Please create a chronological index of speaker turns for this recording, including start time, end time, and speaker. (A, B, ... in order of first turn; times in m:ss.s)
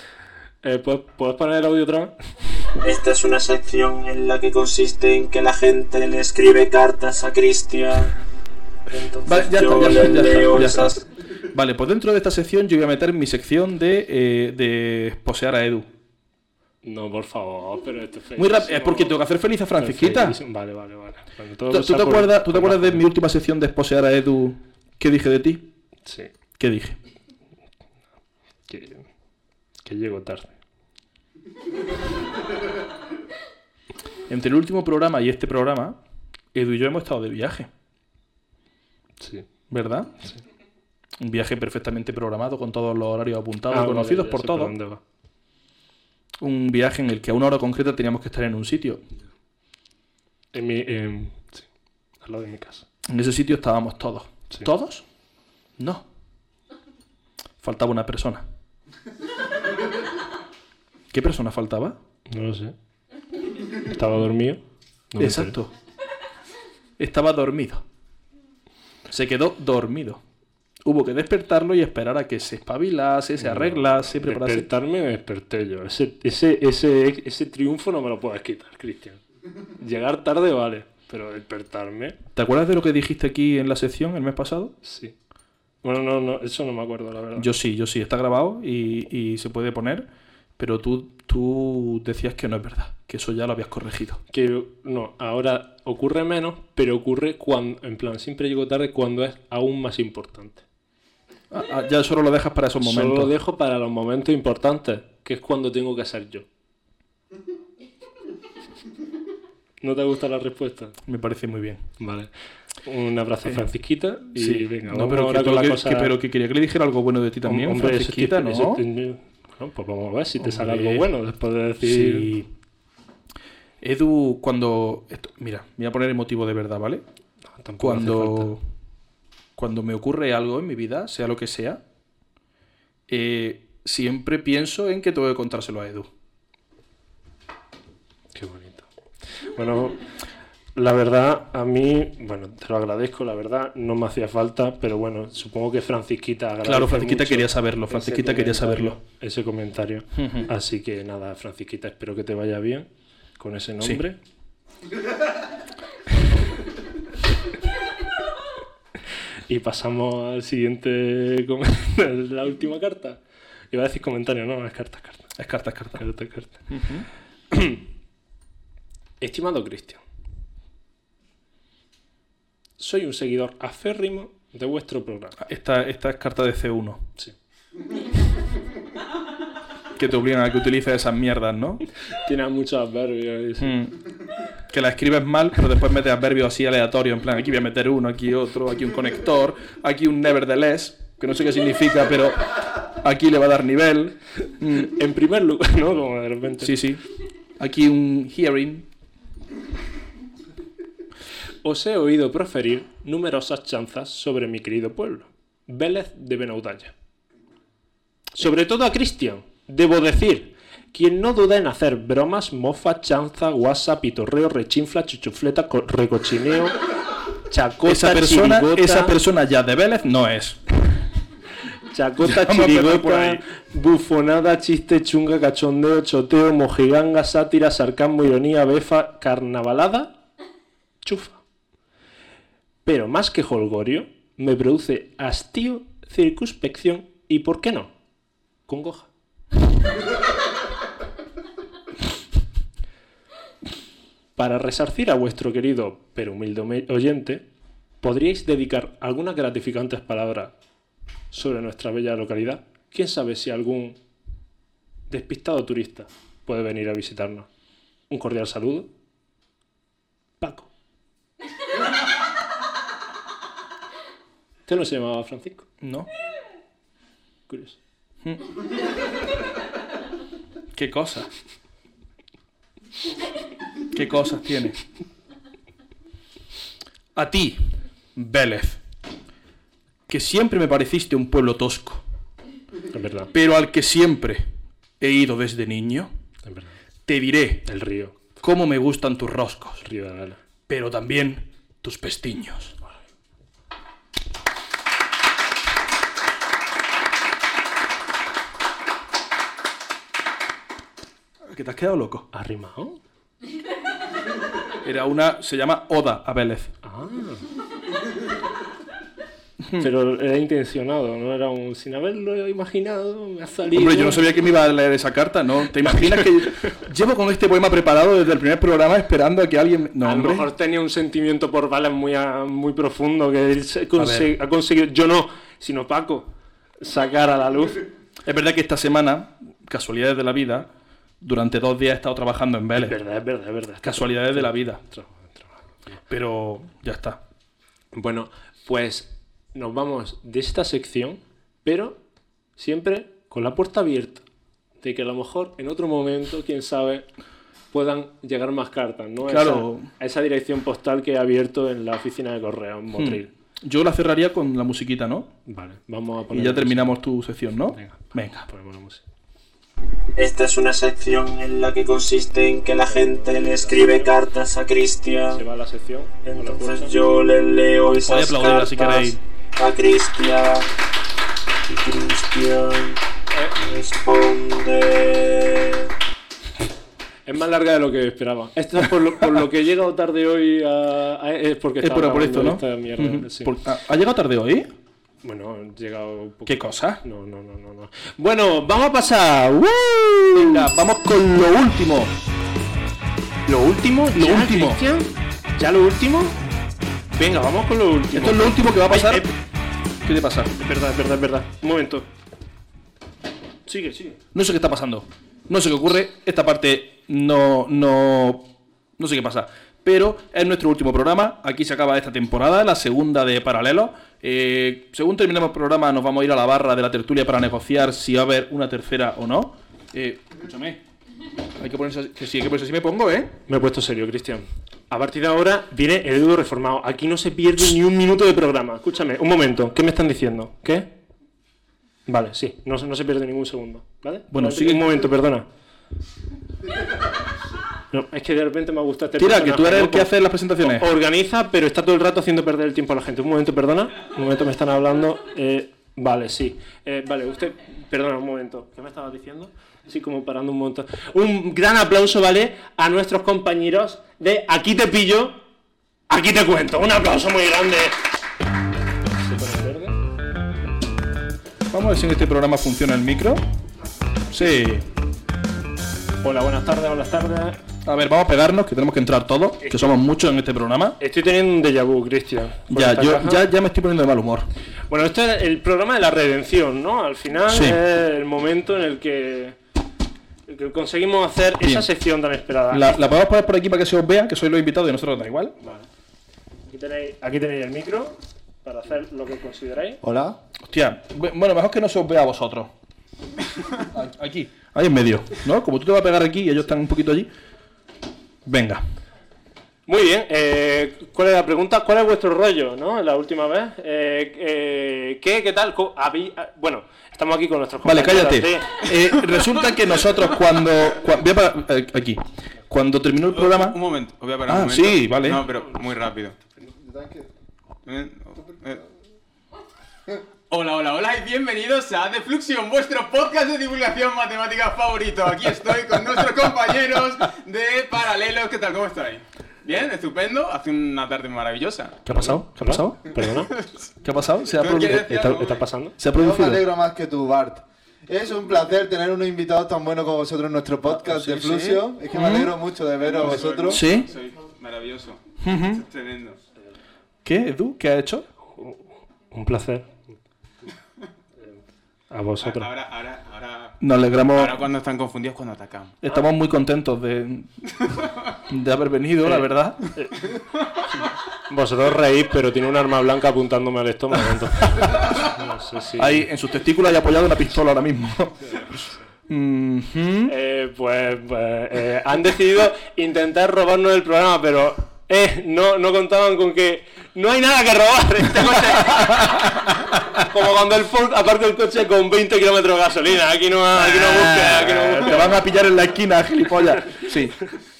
0:00.6-0:02.1 A
0:02.7-0:08.1 B
0:08.9-0:11.0 B
0:09.2-0:15.9 C
0:16.8-0:19.1 A
0:18.4-0:20.4 C
0:19.8-0:23.0 A
0:21.7-0:25.7 C
0:26.0-0:26.3 A
0:26.6-0:27.0 C
0:28.7-0:29.1 A
0:29.8-0:30.6 A
0:34.3-0:36.0 C
0:36.5-0:37.7 C
0:39.2-0:39.5 A
0:39.7-0:40.1 C
0:41.2-0:44.7 C
0:43.7-0:45.0 A
0:46.4-0:49.0 C
0:50.5-0:51.7 A
0:52.2-0:52.8 A
0:53.1-0:55.0 C
0:55.8-0:56.0 C
0:57.6-0:58.4 C
1:01.1-1:02.0 C
1:02.3-1:02.7 A
1:03.7-1:04.6 A
1:05.1-1:05.6 A
1:05.2-1:05.7 C
1:07.0-1:07.8 C
1:09.1-1:10.2 C
1:10.8-1:14.7 C
1:13.4-1:19.2 A
1:19.8-1:22.2 A
1:22.3-1:24.7 C
1:24.8-1:25.1 A
1:25.8-1:27.5 A
1:27.4-1:30.1 C
1:30.6-1:34.2 C
1:34.3-1:40.6 A
1:41.5-1:43.3 C
1:42.8-1:46.4 A
1:49.8-1:51.0 A
1:51.0-1:51.8 C
1:52.0-1:52.3 A
1:52.8-1:56.1 A
1:54.3-1:58.8 C
1:57.4-2:02.4 A
2:00.4-2:01.1 C
2:01.8-2:02.4 C
2:03.8-2:07.0 C
2:07.6-2:08.5 A
2:07.8-2:08.6 C
2:09.6-2:11.8 C
2:13.1-2:16.1 C
2:18.3-2:20.1 A
2:20.7-2:34.2 A
2:26.6-2:29.0 C
2:30.2-2:30.5 C
2:39.5-2:43.2 A
2:43.7-2:45.4 A
2:45.4-2:46.0 C
2:45.9-2:46.7 A
2:46.7-2:47.0 C
2:47.5-2:47.8 A
2:49.2-2:50.0 A
2:52.8-2:55.4 A
2:55.4-2:57.1 C
2:59.9-3:01.8 C
3:02.1-3:03.8 A
3:03.6-3:04.0 C
3:04.7-3:14.9 C
3:14.8-3:16.7 A
3:16.6-3:17.0 C
3:17.6-3:18.8 C
3:21.6-3:26.9 A
3:28.3-3:36.8 A
3:37.5-3:39.1 A
3:37.8-3:41.0 C
3:41.8-3:50.2 A
3:42.2-3:43.4 C
3:51.0-3:51.4 A
3:52.8-3:57.9 A
3:58.7-3:59.1 A
4:04.4-4:07.4 A
4:08.0-4:10.5 A
4:11.3-4:14.0 A
4:15.1-4:17.5 A
4:18.1-4:18.9 A
4:20.4-4:20.7 A
4:24.7-4:25.6 A
4:25.8-4:26.1 C
4:27.5-4:27.8 A
4:28.2-4:28.5 C
4:30.7-4:31.3 C
4:33.9-4:34.8 C
4:37.1-4:38.8 C
4:40.1-4:42.0 C
4:42.9-4:43.3 A
4:43.3-4:44.4 C
4:45.0-4:46.1 C
4:46.4-4:46.7 A
4:47.1-4:47.7 C
4:47.6-4:48.2 A
4:48.4-4:49.8 C
4:49.8-4:50.4 A
4:50.7-4:52.7 C
5:01.5-5:02.3 C
5:02.3-5:03.0 A
5:04.8-5:06.7 C
5:06.8-5:07.5 A
5:09.8-5:14.2 A
5:13.7-5:20.5 C
5:20.0-5:27.9 A
5:24.0-5:24.3 C
5:28.2-5:30.7 C
5:31.2-5:33.0 C
5:32.8-5:36.0 A
5:33.8-5:34.8 C
5:36.1-5:37.2 C
5:37.9-5:42.0 A
5:42.6-5:44.2 A
5:44.8-5:47.1 A
5:47.7-5:53.3 A
5:49.3-5:49.9 C
5:53.0-5:55.3 C
5:55.4-5:56.9 A
5:56.3-5:58.5 C
5:57.7-5:59.0 A
6:00.0-6:05.3 B
6:02.7-6:04.2 A
6:05.2-6:07.0 A
6:06.6-6:10.7 B
6:08.0-6:09.2 C
6:11.6-6:13.0 B
6:13.3-6:13.7 A
6:13.6-6:15.9 B
6:17.2-6:23.5 A
6:21.8-6:24.7 C
6:25.2-6:30.7 A
6:26.5-6:27.0 C
6:30.3-6:32.1 C
6:33.4-6:36.4 A
6:34.1-6:34.8 C
6:37.1-6:39.3 A
6:38.1-6:39.2 C
6:40.0-6:40.5 C
6:40.5-6:42.1 A
6:43.6-6:44.2 A
6:44.3-7:00.8 C
7:01.6-7:03.3 C
7:03.5-7:10.9 A
7:12.0-7:15.5 A
7:14.3-7:15.0 C
7:17.9-7:35.4 A
7:19.2-7:20.9 C
7:36.1-7:38.0 A
7:39.1-7:40.0 A
7:41.7-7:43.4 C
7:44.3-7:44.8 C
7:46.2-7:47.6 A
7:47.8-7:51.0 C
7:49.6-7:50.0 A
7:51.0-7:53.5 A
7:52.7-7:54.5 C
7:54.9-7:59.6 A
7:57.5-7:57.8 C
8:00.5-8:03.1 A
8:01.6-8:01.9 C
8:02.7-8:05.6 C
8:06.7-8:10.0 A
8:10.0-8:10.4 D
8:10.7-8:12.7 C
8:13.8-8:17.3 C
8:18.4-8:18.8 C
8:19.9-8:28.8 A
8:27.8-8:33.8 C
8:33.3-8:36.4 E
8:34.5-8:35.4 C
8:36.6-8:37.3 D
8:37.8-8:38.8 E
8:40.5-8:52.0 E
8:52.0-8:53.0 C
8:52.1-8:53.5 A
8:53.5-8:53.8 E
8:54.0-8:55.4 C
8:54.5-8:55.6 E
8:55.1-8:56.0 A
8:56.0-8:56.6 C
8:56.1-9:03.8 D
9:01.0-9:02.5 C
9:03.0-9:05.2 E
9:03.7-9:04.1 C
9:05.4-9:05.8 C
9:05.7-9:06.4 E
9:07.2-9:08.2 C
9:08.5-9:10.0 A
9:12.1-9:12.7 A
9:12.4-9:13.8 E
9:13.8-9:14.6 C
9:14.3-9:16.0 E
9:16.0-9:17.8 C
9:18.5-9:19.9 C
9:19.2-9:20.2 A
9:21.5-9:26.3 A
9:24.8-9:25.1 C
9:26.0-9:30.3 C
9:30.3-9:45.4 A
9:43.7-9:47.5 C